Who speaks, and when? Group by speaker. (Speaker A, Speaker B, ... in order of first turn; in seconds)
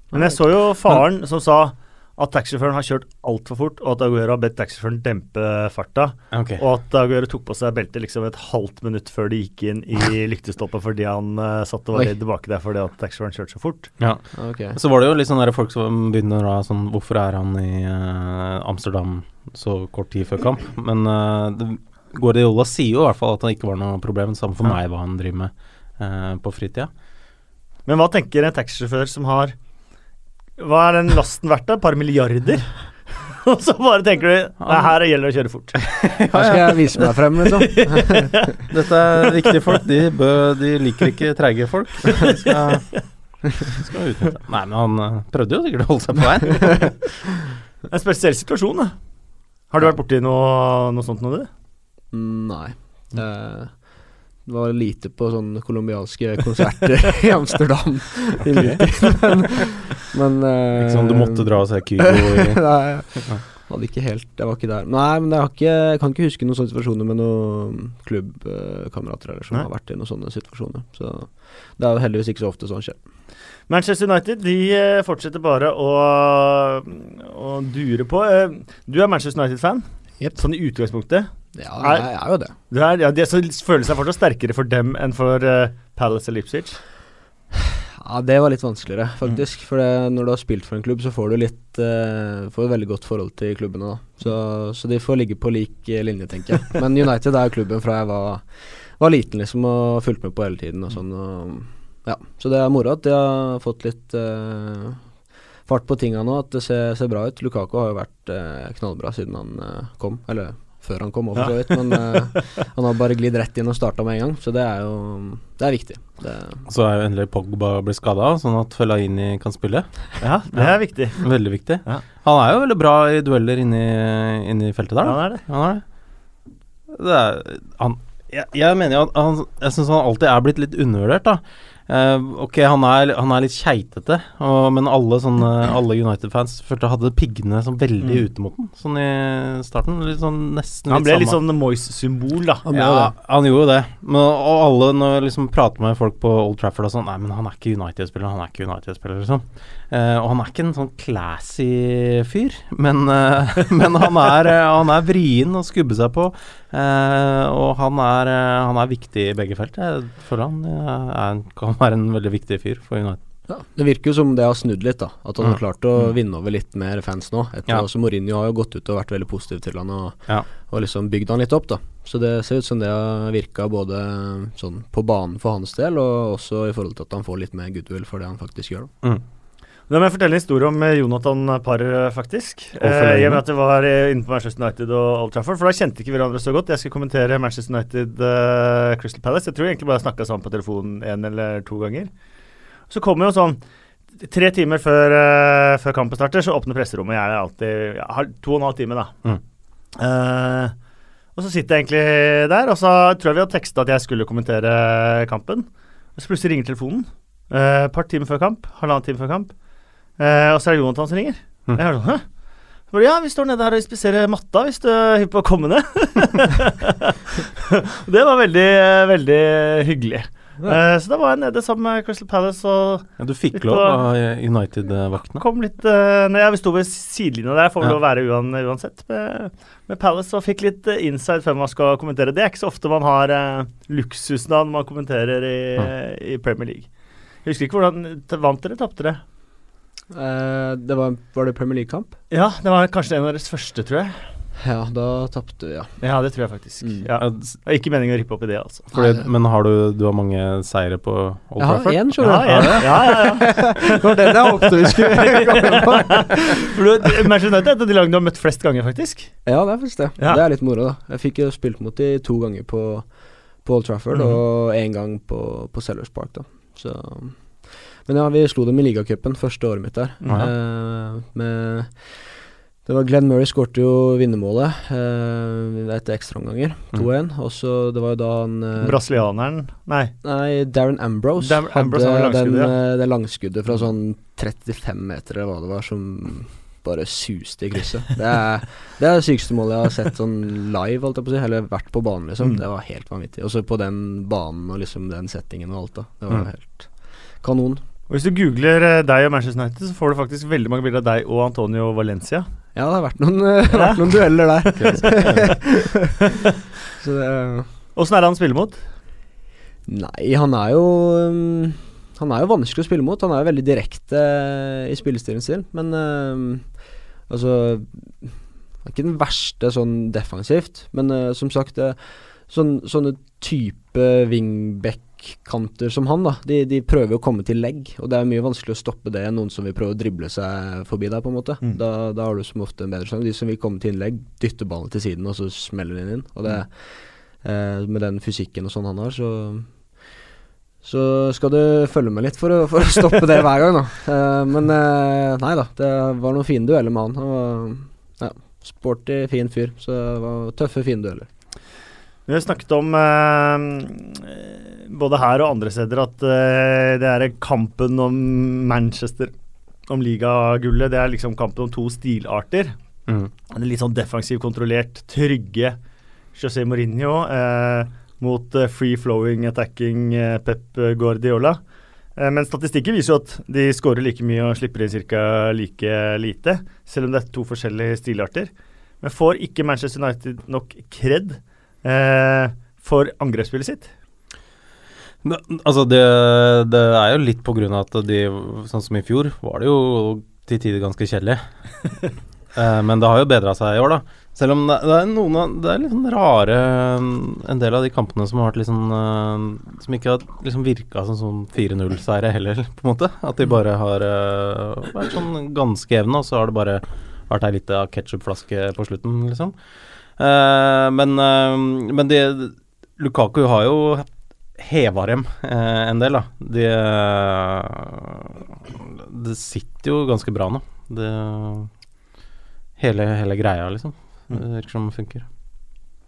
Speaker A: 0.1-0.4, 14.3-14.8, 36.3-38.6, 52.1-53.9, 54.4-73.0, 81.5-82.5, 88.0-105.0, 105.7-116.6, 142.7-143.1, 163.5-178.9, 240.1-242.1, 244.6-246.0, 246.8-247.1, 248.9-249.3, 251.6-256.7, 259.4-279.0, 280.2-297.8, 302.8-306.3, 307.0-307.7, 309.9-316.7, 317.3-339.8, 340.8-351.3
Speaker B: 0.1-13.9, 27.9-29.5, 30.6-36.1, 37.5-38.6, 42.3-43.0, 47.9-49.0, 49.7-51.5, 73.7-86.8, 111.3-112.4, 120.2-122.0, 125.0-125.4, 140.9-142.7, 179.9-192.1, 192.9-193.6, 194.2-199.1, 200.0-200.8, 201.3-209.6, 210.2-212.2, 212.9-224.0, 225.3-236.9, 237.4-239.2, 242.3-244.2, 246.0-248.9, 252.2-254.3, 254.9-259.4, 270.2-270.5, 278.8-280.1, 281.4-282.7, 298.1-302.5, 303.7-304.0, 305.2-305.6, 308.0-308.8, 352.3-359.3, 359.9-362.8, 363.5-365.8, 366.3-371.6, 372.2-383.9
Speaker C: 6.3-6.6, 14.0-26.9, 34.6-35.0, 35.8-37.1, 38.7-47.3, 58.4-59.0, 60.8-63.4, 116.7-125.8, 126.9-141.4, 142.7-163.2, 182.8-183.4, 223.2-225.4, 247.2-247.6, 248.9-253.2, 304.8-305.6, 385.2-391.4, 392.5-409.6, 410.1-421.7, 422.8-425.3